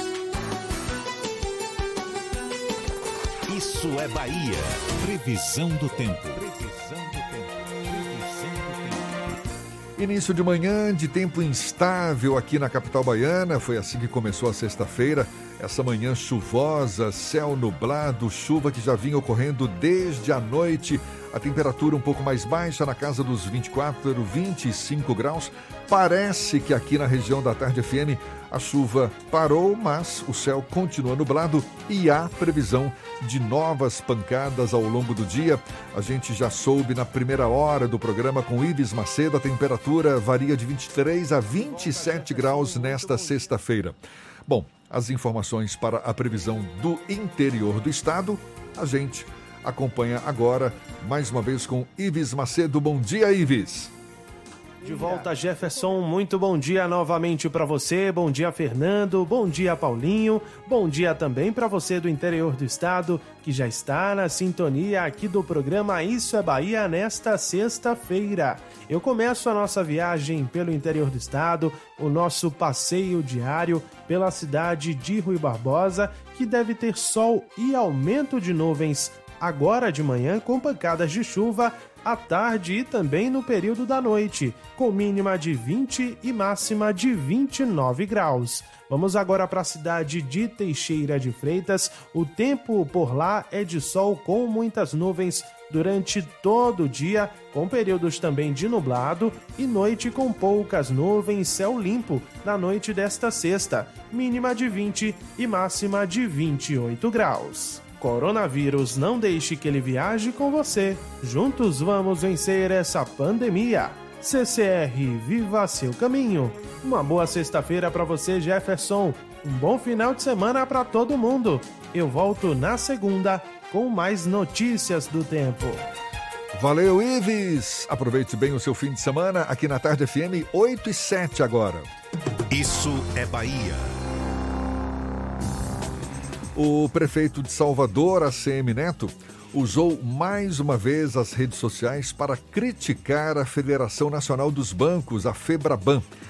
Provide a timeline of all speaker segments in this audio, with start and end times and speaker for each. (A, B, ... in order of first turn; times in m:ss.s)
0:03.5-0:06.6 A
0:08.2-0:08.5 A
0:10.0-0:53.9 B
0:54.8-2:05.8 C
2:06.6-2:11.9 B
2:12.5-2:13.9 A
2:16.6-2:26.0 B